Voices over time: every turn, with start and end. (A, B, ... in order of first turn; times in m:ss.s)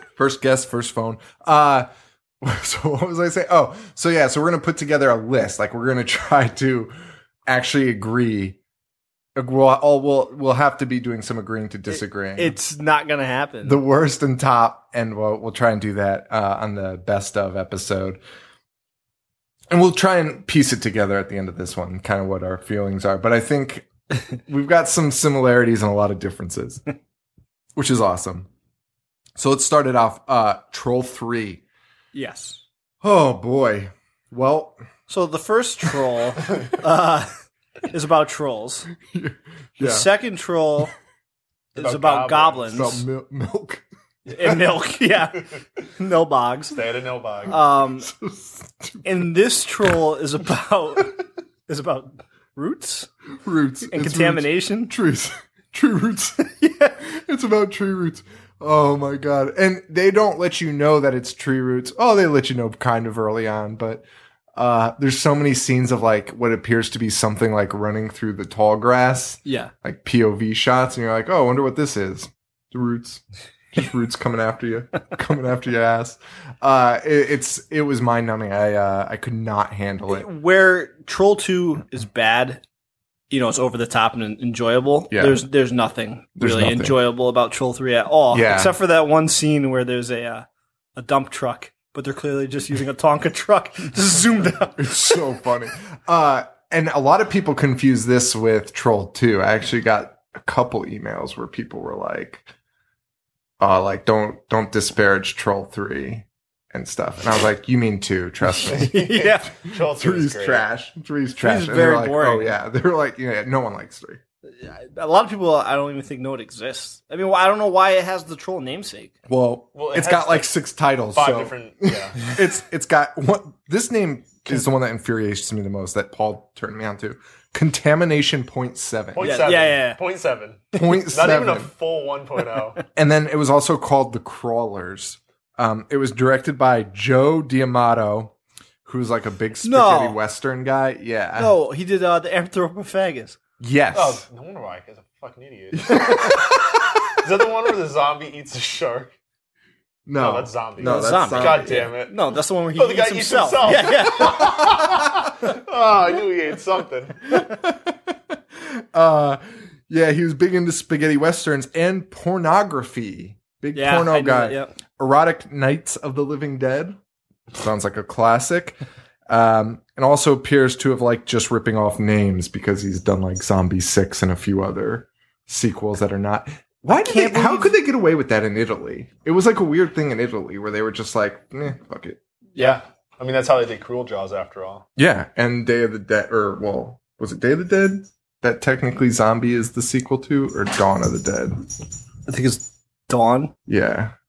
0:00.2-0:01.9 A
0:02.4-0:06.9 A
0:07.5-0:08.6 A
0:09.4-0:12.6 A
0:11.9-0:13.8 B
0:13.6-0:18.2 A
0:19.7-0:23.9 A
0:24.5-0:26.8 A
0:27.8-0:28.5 A
0:29.4-0:31.6 A
0:32.1-0:32.6 B
0:33.0-0:34.8 A
0:35.1-0:37.3 B
0:37.9-0:38.9 B
0:39.0-0:40.1 A
0:39.8-0:40.9 B
0:41.8-0:43.0 B
0:41.8-0:42.6 C
0:42.7-0:43.8 A
0:44.3-0:46.8 B
0:46.7-0:47.6 C
0:47.5-0:48.1 B
0:48.0-0:49.2 A
0:49.0-0:53.1 B
0:53.4-0:56.4 A
0:53.8-0:54.9 B
0:56.5-0:57.0 B
0:57.0-1:04.0 A
1:04.6-1:13.2 A
1:09.4-1:09.7 B
1:13.7-1:20.3 A
1:20.1-1:22.6 B
1:23.3-1:35.2 B
1:25.1-1:25.4 A
1:26.4-1:27.0 A
1:28.3-1:28.8 A
1:34.8-1:42.5 A
1:43.6-1:49.1 A
1:48.6-1:49.5 B
1:48.7-1:50.7 C
1:49.8-1:54.2 A
1:51.4-1:52.6 B
1:54.5-1:59.1 B
1:59.3-2:09.5 A
1:59.8-2:00.6 C
2:01.1-2:02.2 C
2:09.1-2:12.8 C
2:09.2-2:10.0 B
2:10.7-2:11.7 A
2:13.0-2:21.6 A
2:19.6-2:20.2 B
2:21.4-2:23.4 B
2:23.6-2:24.2 A
2:23.9-2:29.1 C
2:25.8-2:27.0 A
2:30.1-2:31.9 A
2:30.2-2:32.2 C
2:30.8-2:34.8 B
2:32.8-2:37.3 C
2:37.3-2:47.0 A
2:43.7-2:44.7 B
2:47.6-3:02.2 A
2:56.9-2:57.8 B
3:02.6-3:04.9 C
3:05.0-3:11.6 A
3:12.3-3:13.5 B
3:13.7-3:14.1 A